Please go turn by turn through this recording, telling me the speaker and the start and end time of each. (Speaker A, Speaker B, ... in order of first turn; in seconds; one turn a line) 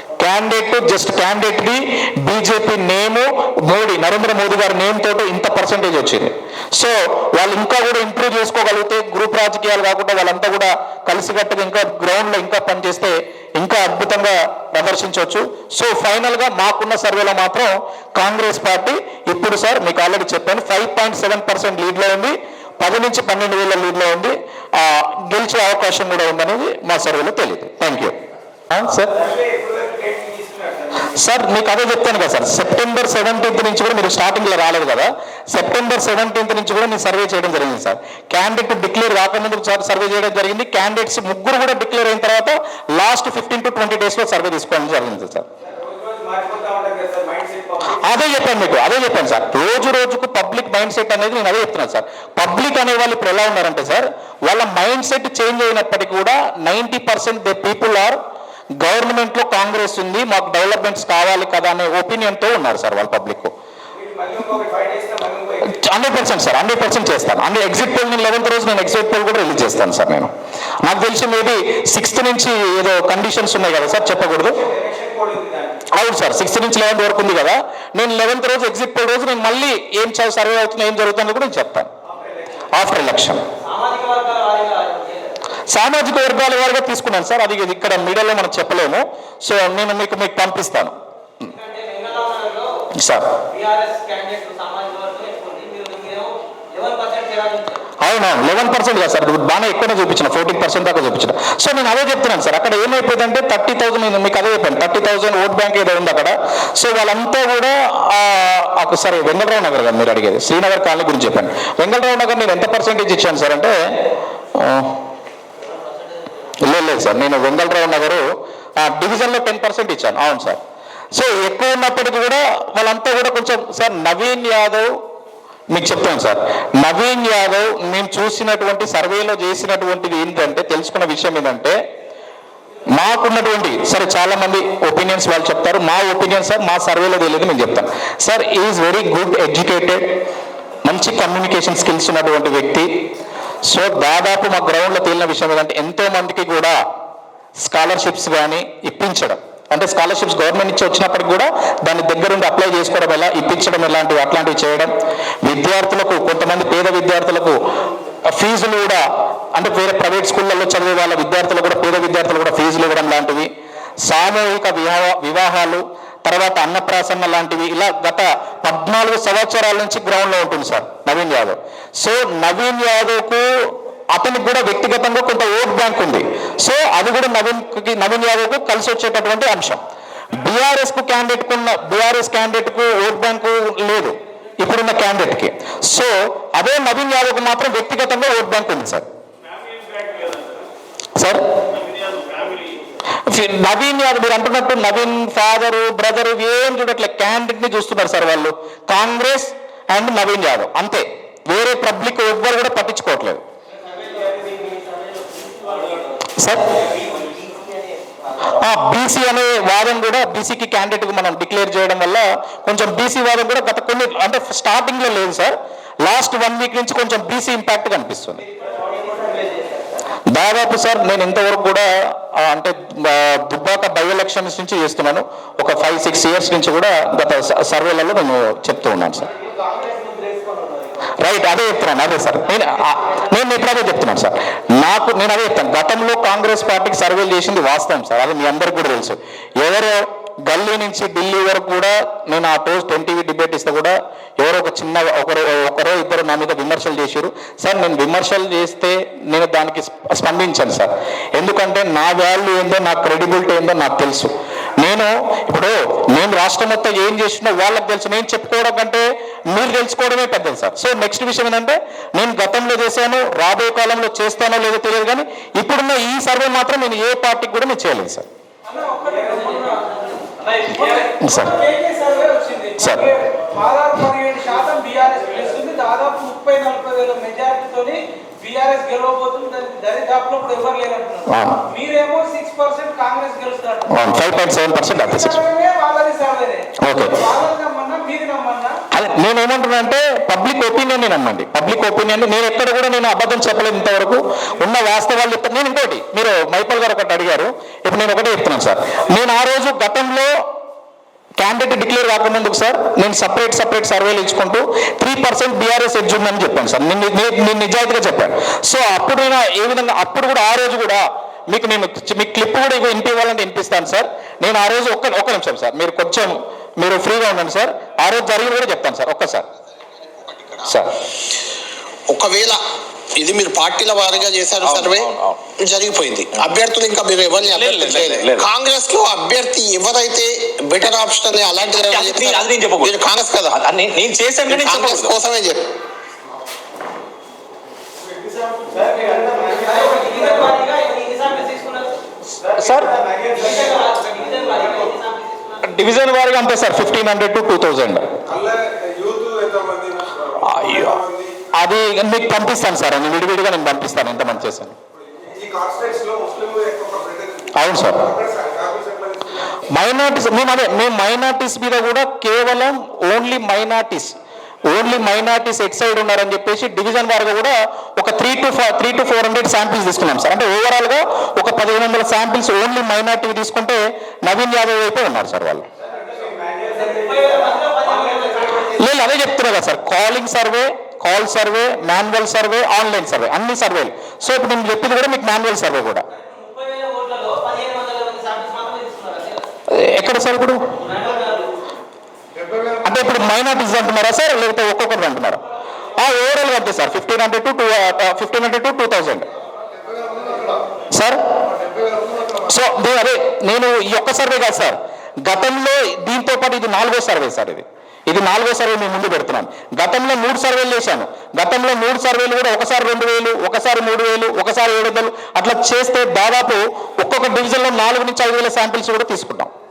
Speaker A: 0.2-28.2
Speaker A: 28.7-29.1
Speaker B: 29.1-31.1
Speaker A: 31.0-45.5
Speaker B: 45.7-48.0
Speaker A: 48.0-58.2
Speaker A: 58.8-63.5
Speaker B: 63.9-65.7
Speaker A: 65.7-74.6
Speaker B: 74.6-75.8
Speaker A: 75.9-81.9
Speaker B: 82.1-82.7
Speaker A: 82.7-83.4
Speaker C: 83.6-85.3
Speaker A: 85.7-90.9
Speaker C: 91.4-92.7
Speaker A: 93.0-93.3
Speaker C: 93.5-97.8
Speaker A: 98.0-113.7
Speaker A: 114.5-115.0
Speaker A: 116.6-118.2
Speaker A: 118.8-120.6
Speaker A: 121.1-124.9
Speaker A: 125.7-131.8
Speaker A: 132.9-140.2
Speaker A: 140.8-142.9
Speaker A: 143.6-146.8
Speaker A: 147.6-154.9
Speaker A: 155.4-157.6
Speaker A: 158.3-163.5
Speaker A: 164.0-189.1
Speaker A: 191.2-191.6
Speaker A: 193.2-203.4
Speaker C: 203.9-205.9
Speaker A: 206.4-206.8
Speaker A: 208.5-218.4
Speaker C: 219.0-219.5
Speaker A: 220.3-229.3
Speaker B: 229.8-230.2
Speaker A: 231.2-268.3
Speaker B: 268.7-269.9
Speaker C: 269.1-270.7
Speaker B: 270.6-284.3
Speaker A: 271.2-271.5
Speaker A: 272.8-273.1
Speaker A: 281.3-281.6
Speaker A: 283.9-285.4
Speaker B: 284.8-288.8
Speaker A: 286.8-287.2
Speaker A: 288.9-300.3
Speaker A: 301.4-319.5
Speaker A: 320.6-320.9
Speaker D: 322.1-322.6
Speaker D: 323.1-333.6
Speaker E: 324.6-325.4
Speaker E: 327.4-328.5
Speaker E: 331.7-335.2
Speaker D: 334.5-335.6
Speaker B: 338.6-339.8
Speaker C: 339.5-342.0
Speaker A: 342.4-342.9
Speaker B: 342.8-343.2
Speaker C: 343.3-345.7
Speaker A: 345.6-348.1
Speaker F: 348.3-351.4
Speaker A: 350.4-351.0
Speaker A: 351.5-354.8
Speaker F: 355.2-359.7
Speaker A: 357.5-358.0
Speaker A: 359.7-375.6
Speaker B: 376.2-376.7
Speaker C: 376.8-378.8
Speaker A: 378.6-386.0
Speaker C: 386.1-389.5
Speaker A: 389.7-390.7
Speaker C: 390.8-391.5
Speaker A: 392.8-395.4
Speaker A: 396.0-399.3
Speaker A: 400.9-401.2
Speaker A: 402.4-419.5